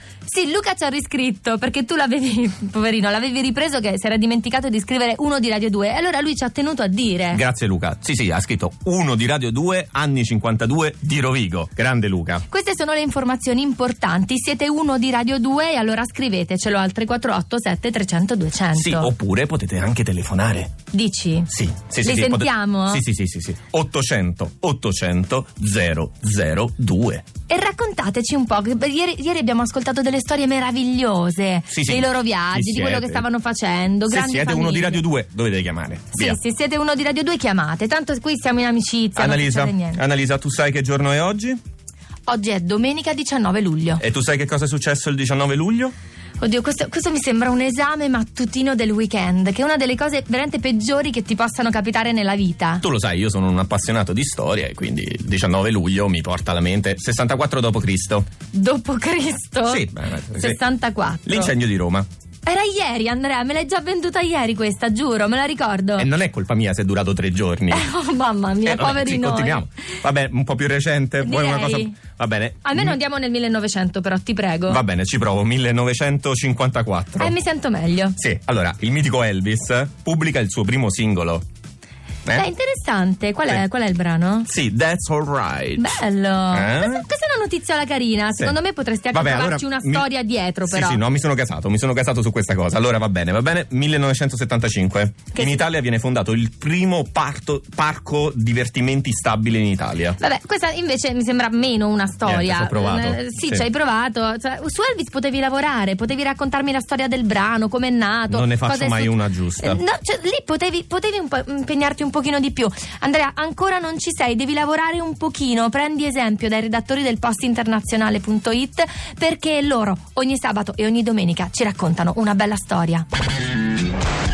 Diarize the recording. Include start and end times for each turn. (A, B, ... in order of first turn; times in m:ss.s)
0:00.3-0:07.4 A
0:07.3-0:12.4 B
0:12.5-0:19.1 A
0:18.8-0:20.7 B
0:20.9-0:21.5 A
0:21.5-0:27.2 B
0:22.0-0:23.0 A
0:27.5-0:35.0 A
0:31.7-0:33.2 B
0:34.1-0:36.4 B
0:36.1-0:40.0 A
0:39.2-0:41.6 B
0:42.3-0:44.0 A
0:44.0-0:46.0 B
0:46.4-0:52.8 A
0:52.8-0:58.3 B
0:58.5-0:59.9 A
0:59.7-1:00.6 B
1:00.4-1:01.5 A
1:01.3-1:02.1 B
1:02.5-1:06.1 A
1:06.0-1:07.9 B
1:07.7-1:09.6 A
1:08.7-1:13.0 B
1:11.2-1:12.0 A
1:12.6-1:14.8 A
1:14.7-1:17.3 B
1:17.2-1:18.2 A
1:18.2-1:21.4 B
1:22.3-1:24.5 A
1:24.5-1:26.0 B
1:25.8-1:31.0 A
1:26.5-1:27.0 B
1:29.1-1:30.1 B
1:30.7-1:40.2 B
1:35.4-1:35.6 A
1:40.2-2:03.1 A
1:42.3-1:43.6 B
1:48.3-1:49.8 B